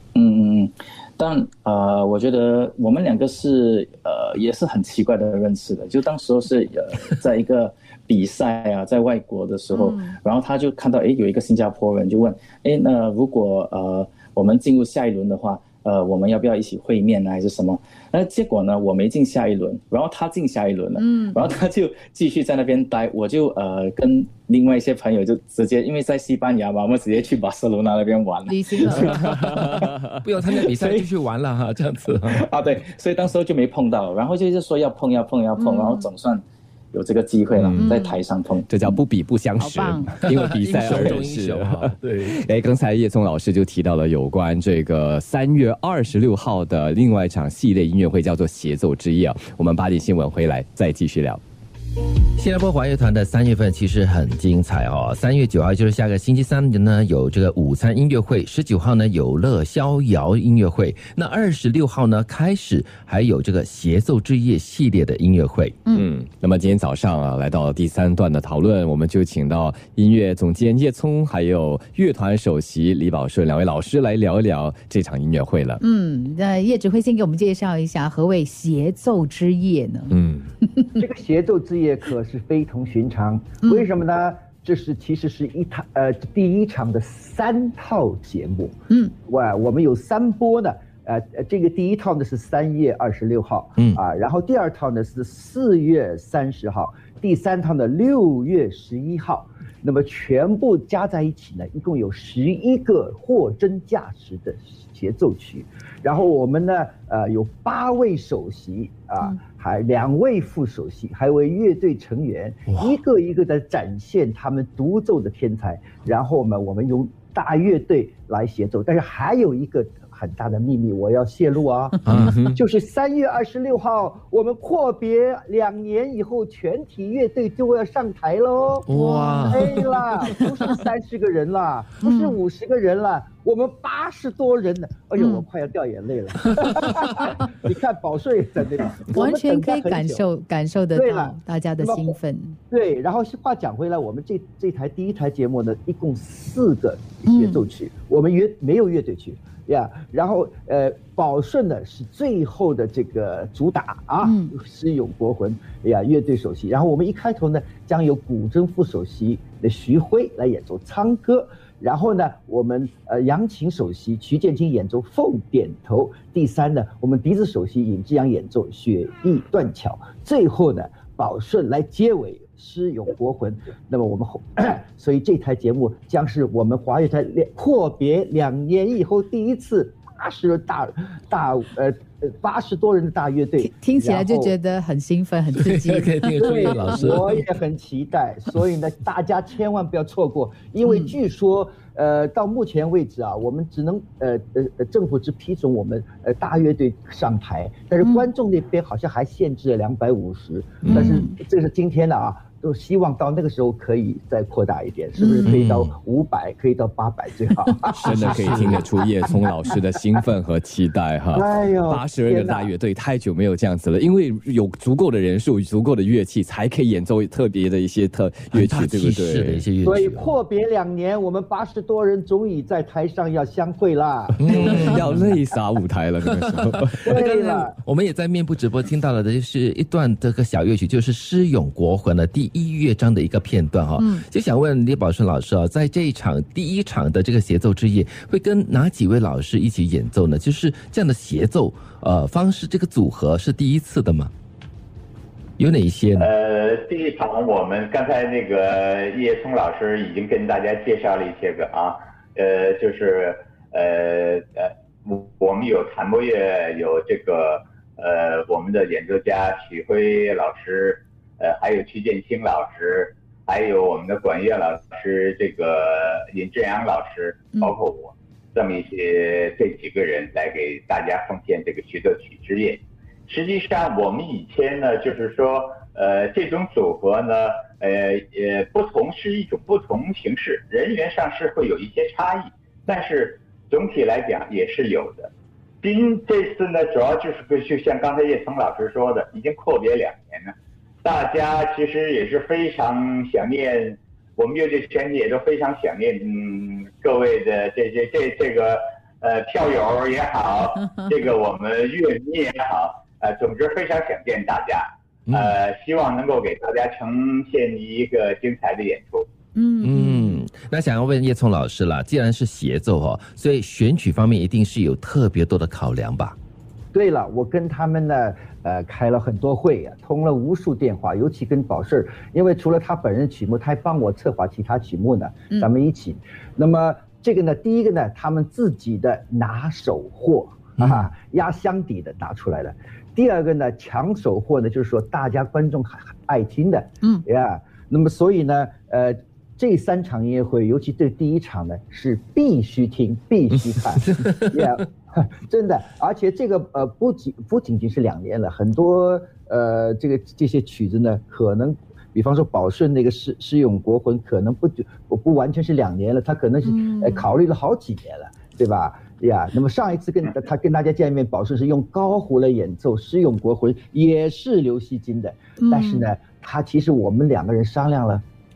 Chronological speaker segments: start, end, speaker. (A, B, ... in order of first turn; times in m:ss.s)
0:00.1-0:29.9 A
0:09.7-0:10.2 B
0:21.0-0:21.5 B
0:28.5-0:29.4 B
0:29.0-0:32.4 C
0:29.6-0:30.0 D
0:32.2-0:38.7 A
0:35.6-0:36.0 B
0:37.6-0:38.0 D
0:37.8-0:38.2 B
0:38.7-0:51.4 D
0:39.6-0:40.2 B
0:40.2-0:42.4 C
0:52.4-1:05.8 C
1:05.9-1:15.8 D
1:15.8-1:21.0 B
1:20.1-1:20.5 D
1:21.0-2:08.9 E
2:02.0-2:02.4 C
2:02.1-2:02.6 D
2:08.9-2:09.9 C
2:08.9-2:10.7 B
2:09.5-2:20.2 E
2:12.0-2:12.4 B
2:15.2-2:15.4 B
2:17.1-2:17.4 B
2:19.1-2:22.6 B
2:20.9-2:22.2 E
2:22.7-3:04.6 E
2:27.3-2:27.6 B
2:34.2-2:34.6 B
3:03.6-3:06.7 B
3:05.6-3:07.4 C
3:06.4-3:28.9 E
3:10.9-3:11.1 B
3:20.8-3:21.2 D
3:20.9-3:21.4 B
3:25.2-3:25.6 B
3:25.6-3:25.9 C
3:27.9-3:39.6 D
3:31.3-3:32.7 E
3:38.5-3:40.3 C
3:39.8-3:44.9 E
3:44.4-3:45.2 C
3:44.4-3:47.1 D
3:46.3-4:04.3 C
3:47.0-3:47.8 E
3:54.0-3:54.2 B
4:05.6-4:06.3 C
4:06.2-4:45.3 F
4:45.8-5:09.3 F
5:05.3-5:05.6 C
5:09.6-5:10.4 B
5:09.8-5:16.4 C
5:16.9-6:08.2 E
5:44.2-5:44.5 C
5:56.7-5:57.2 B
6:05.6-6:06.1 B